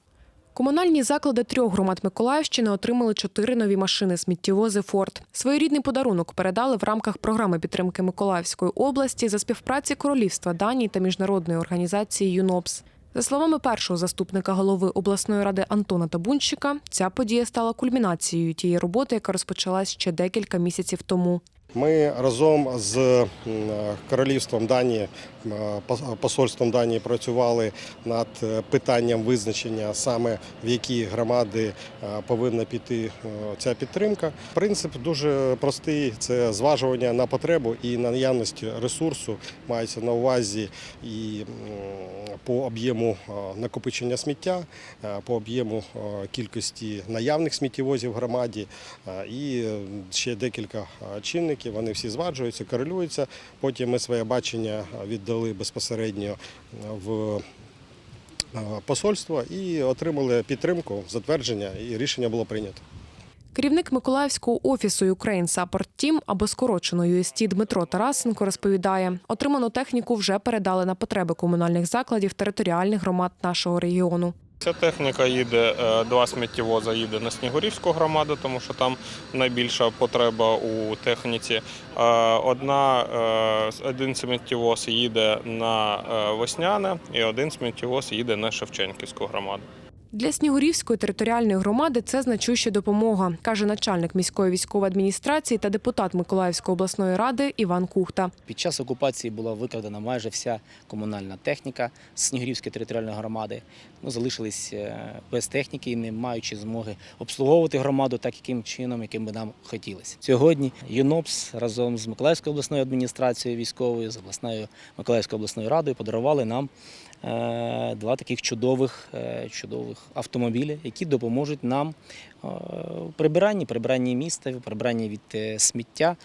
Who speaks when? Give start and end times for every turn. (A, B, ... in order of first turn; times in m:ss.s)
0:00.6-0:21.4 A
0:21.8-0:57.4 B
0:58.5-1:02.8 B
1:03.5-1:14.4 A
1:14.6-1:29.7 C
1:30.1-1:38.3 A
1:38.5-1:56.7 D
1:57.2-2:06.2 D